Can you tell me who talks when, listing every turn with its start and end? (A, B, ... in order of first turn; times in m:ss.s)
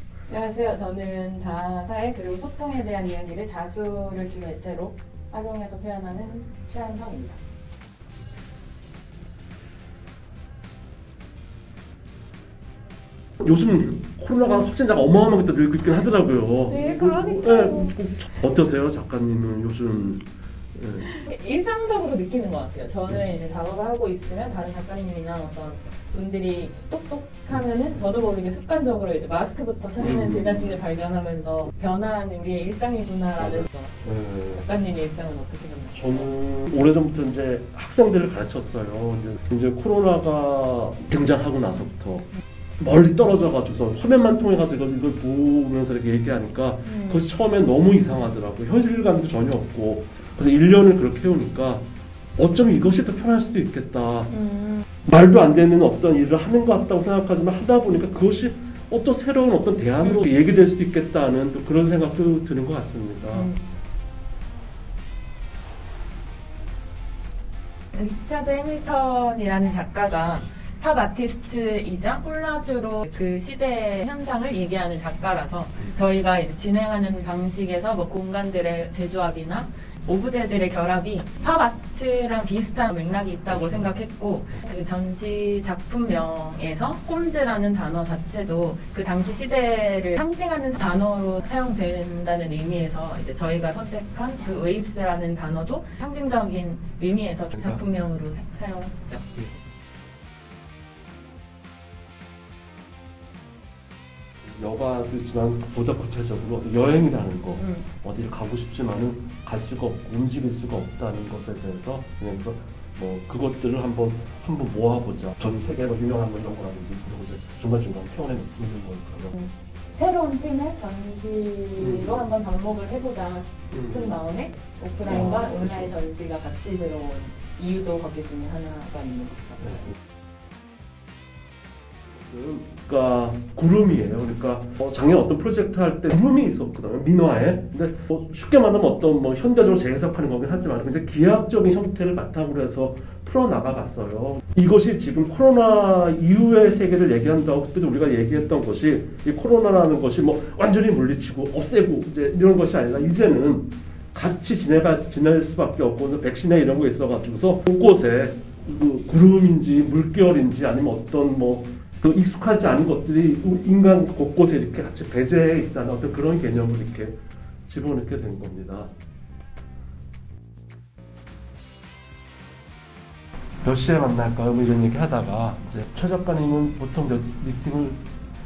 0:00.3-0:07.4 A
0:13.4-0:21.1 B
0:16.7-0:17.9 A
0:21.0-0:34.0 A
0:30.0-0:30.8 B
0:33.4-0:34.6 B
0:34.5-0:36.3 A
0:35.9-0:51.9 B
0:46.8-0:47.2 A
0:52.4-0:54.3 B
0:54.3-0:54.8 A
0:55.1-1:03.5 B
1:03.3-1:03.6 A
1:07.9-1:39.4 A
1:37.6-1:37.8 B
1:44.4-1:59.4 B
1:47.6-1:47.8 A
1:59.4-2:09.9 A
2:01.8-2:02.3 B
2:03.7-2:04.2 B
2:05.1-2:06.0 B
2:12.1-2:48.9 B
2:53.6-2:58.0 B